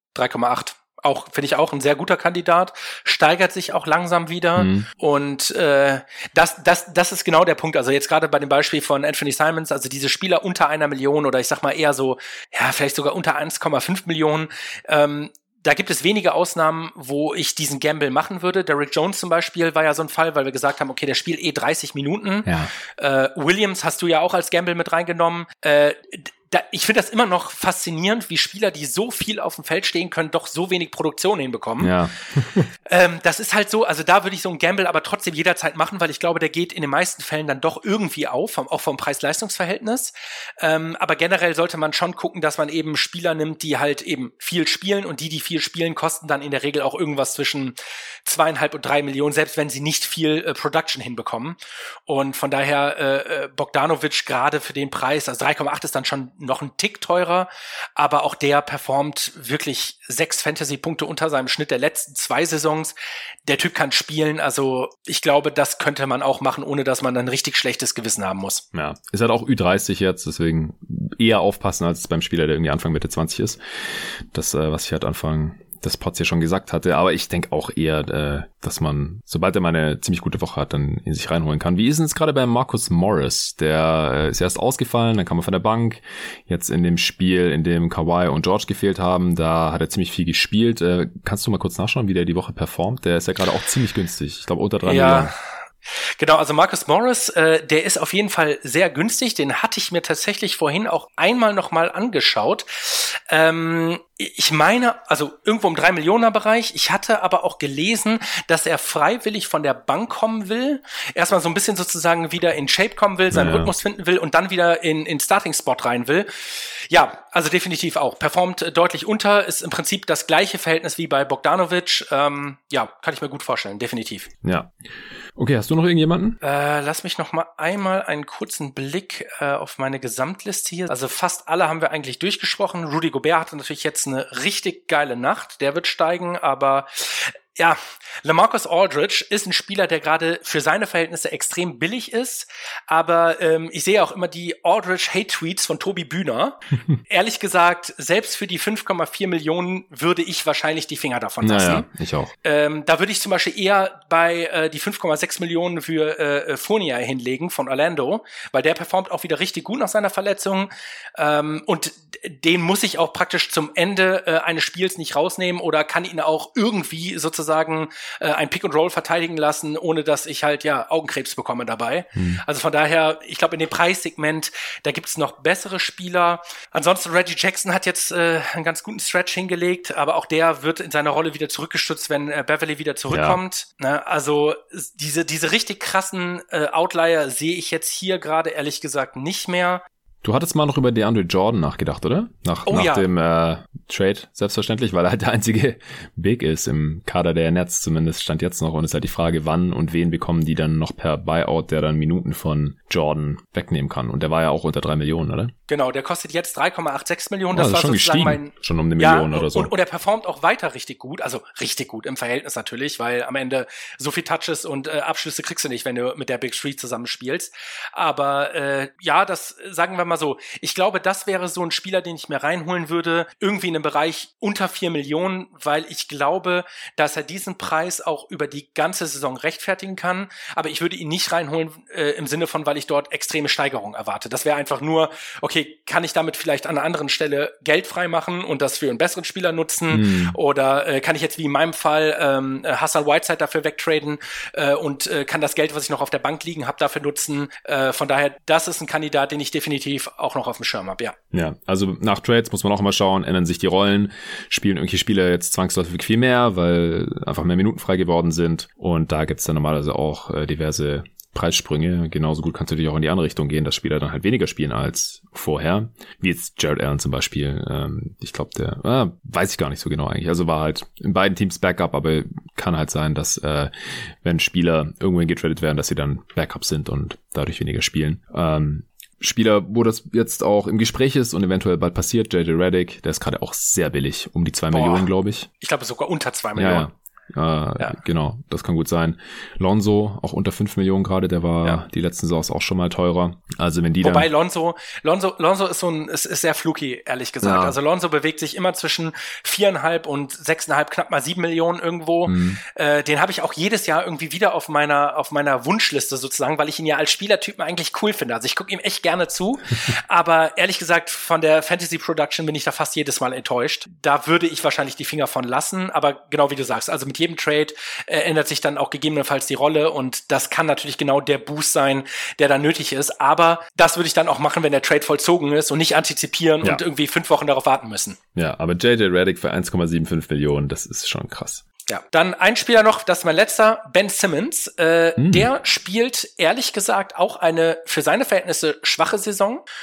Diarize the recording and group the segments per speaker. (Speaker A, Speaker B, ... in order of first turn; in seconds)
Speaker A: 0.1-31.9, 32.9-62.9, 63.5-68.6, 94.8-95.4, 96.2-124.3, 126.4-151.9, 152.4-189.8, 192.7-193.1, 205.7-251.2, 284.7-285.1, 285.6-286.9, 294.0-328.2, 331.9-339.6
Speaker B: 4.6-4.9, 22.5-22.7, 31.8-32.7, 68.7-95.3, 113.3-113.7, 124.4-124.7, 125.4-126.4, 151.4-152.3, 172.2-172.4, 183.1-183.4, 190.2-205.5, 207.5-209.7, 239.9-240.4, 251.3-285.5, 286.6-294.3, 297.4-297.8, 302.3-302.6, 328.4-331.6, 335.2-335.5